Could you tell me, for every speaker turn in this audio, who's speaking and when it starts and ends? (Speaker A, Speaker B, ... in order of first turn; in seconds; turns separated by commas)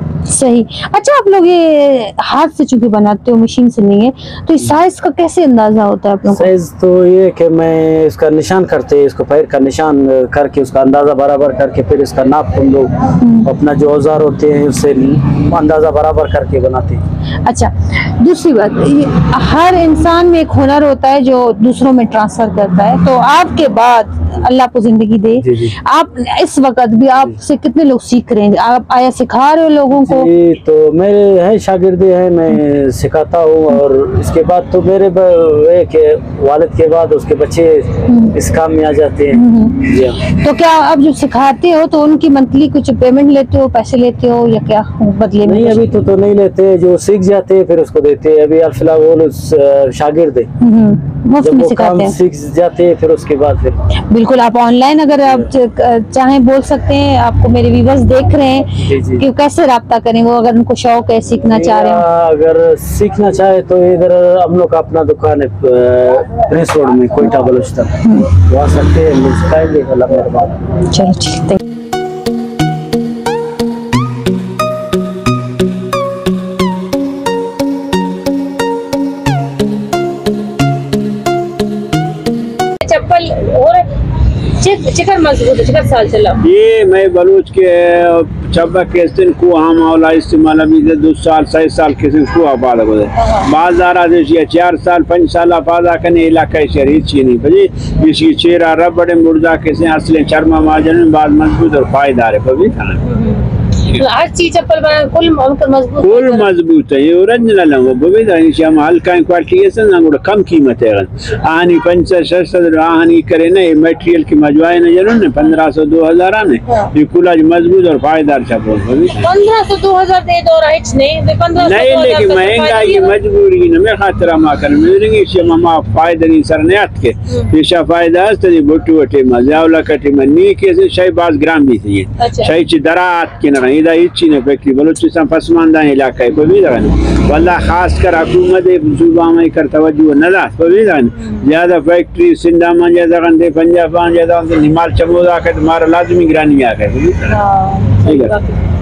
Speaker A: 0.2-6.5, Speaker B: 6.3-17.0, Speaker A: 13.2-13.5, Speaker A: 17.4-30.3, Speaker B: 25.4-25.7, Speaker B: 29.9-40.2, Speaker A: 38.1-38.4, Speaker A: 39.3-45.9, Speaker B: 45.4-50.5, Speaker A: 50.6-52.2, Speaker B: 51.4-53.8, Speaker A: 54.1-62.0, Speaker B: 58.9-59.2, Speaker B: 61.5-67.9, Speaker A: 68.0-68.3, Speaker B: 68.4-70.6, Speaker A: 70.8-71.6, Speaker A: 82.8-83.8, Speaker A: 84.6-86.4, Speaker C: 86.4-103.0, Speaker A: 104.0-106.5, Speaker C: 106.0-119.3, Speaker A: 119.2-123.1, Speaker C: 121.5-147.4, Speaker A: 132.2-132.5, Speaker A: 147.3-148.4, Speaker C: 148.0-148.4